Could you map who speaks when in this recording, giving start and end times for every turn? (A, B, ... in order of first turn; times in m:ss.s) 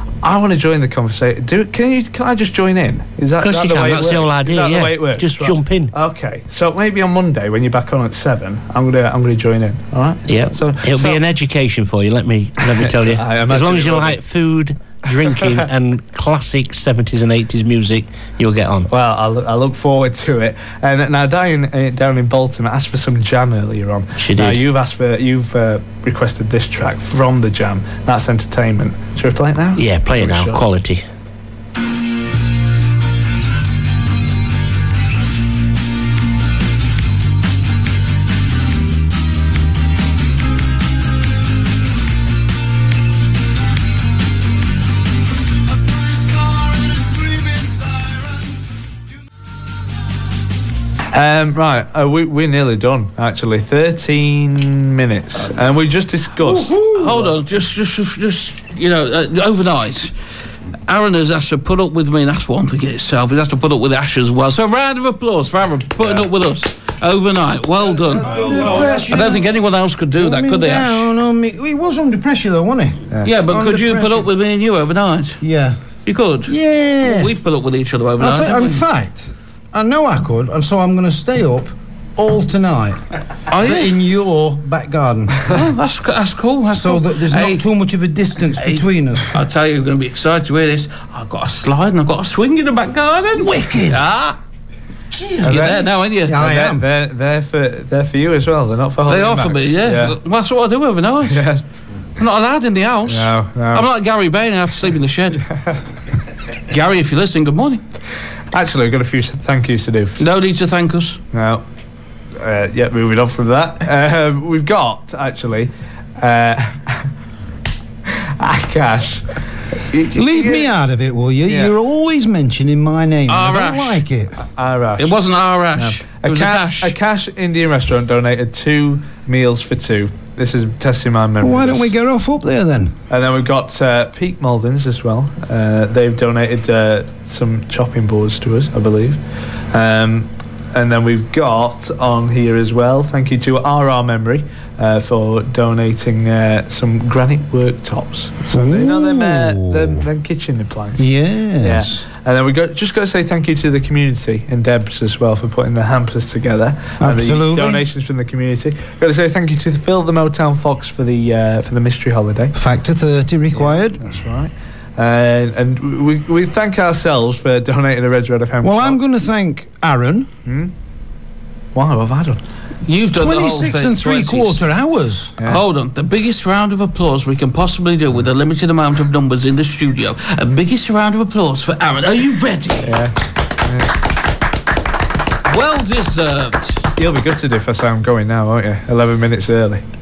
0:00.2-0:11.2 A
0:03.4-0:05.9 B
0:10.3-0:18.9 B
0:12.8-0:14.2 A
0:18.9-0:30.6 A
0:24.2-0:24.6 B
0:29.8-0:31.0 B
0:51.1-0:57.3 A
0:56.8-1:00.1 C
1:00.9-1:11.1 C
1:08.2-1:09.5 D
1:08.3-1:09.0 A
1:10.2-1:14.3 D
1:13.2-1:15.4 C
1:15.4-1:15.8 D
1:16.1-1:18.8 C
1:16.5-1:17.3 D
1:18.2-1:23.0 D
1:23.5-1:24.0 C
1:23.5-1:25.5 D
1:25.5-1:27.7 C
1:26.7-1:29.4 D
1:28.5-1:34.4 C
1:33.4-1:33.8 D
1:35.2-1:36.4 C
1:35.3-1:35.7 D
1:35.5-1:40.2 A
1:36.3-1:36.8 D
1:39.1-1:41.5 C
1:41.3-1:41.6 A
1:42.2-1:45.4 C
1:43.0-1:43.9 A
1:46.7-1:47.8 C
1:48.5-1:50.2 A
1:50.2-1:51.2 C
1:51.3-1:51.6 A
1:52.4-1:57.1 A
1:58.1-1:59.2 A
1:59.9-2:00.7 A
2:00.1-2:04.4 D
2:01.5-2:01.7 A
2:03.3-2:04.1 C
2:04.4-2:05.2 A
2:05.0-2:07.0 C
2:05.7-2:11.9 A
2:11.4-2:12.9 D
2:13.1-2:19.2 A
2:19.7-2:31.1 A
2:28.5-2:30.0 D
2:31.0-2:32.0 D
2:31.6-2:42.6 A
2:37.0-2:37.8 D
2:42.6-2:44.0 D
2:43.5-2:49.0 A
2:48.6-2:50.3 D
2:50.5-2:50.7 A
2:51.8-2:52.4 A
2:52.9-2:54.6 C
2:53.1-2:55.4 D
2:54.0-2:54.4 A
2:55.4-3:03.0 C
3:02.8-3:03.1 A
3:05.5-3:06.8 C
3:07.0-3:09.8 A